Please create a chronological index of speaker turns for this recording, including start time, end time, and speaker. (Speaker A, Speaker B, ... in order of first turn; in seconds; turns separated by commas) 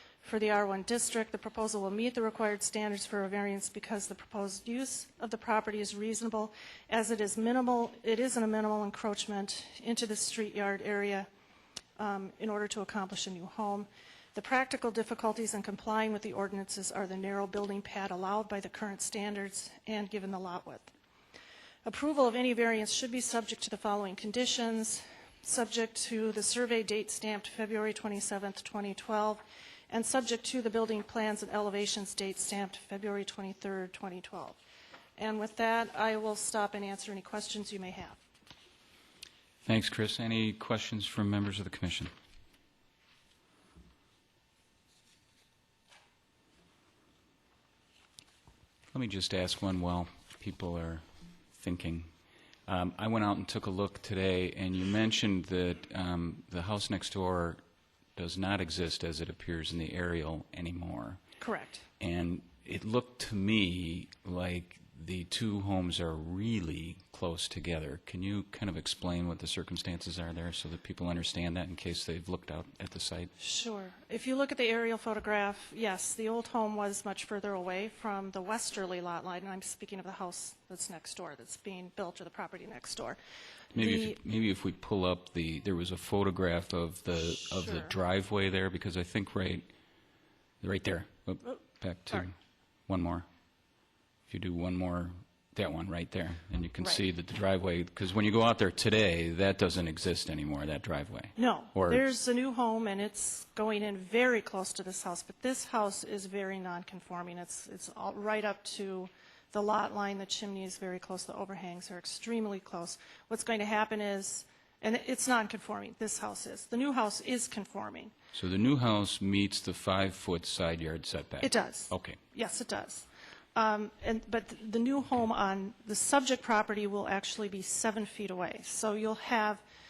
Speaker A: 0.2-11.3, Speaker A: 12.0-20.9, Speaker A: 21.8-34.6, Speaker A: 35.2-38.2, Speaker B: 39.6-42.1, Speaker B: 48.9-52.1, Speaker B: 52.6-57.6, Speaker B: 58.1-61.3, Speaker A: 61.4-61.9, Speaker B: 62.0-73.3, Speaker A: 73.4-83.2, Speaker A: 83.7-84.2, Speaker B: 83.7-89.7, Speaker A: 87.4-87.9, Speaker B: 90.6-92.3, Speaker B: 92.9-93.2, Speaker B: 94.3-102.0, Speaker A: 101.3-118.1, Speaker B: 118.3-122.2, Speaker A: 121.4-129.6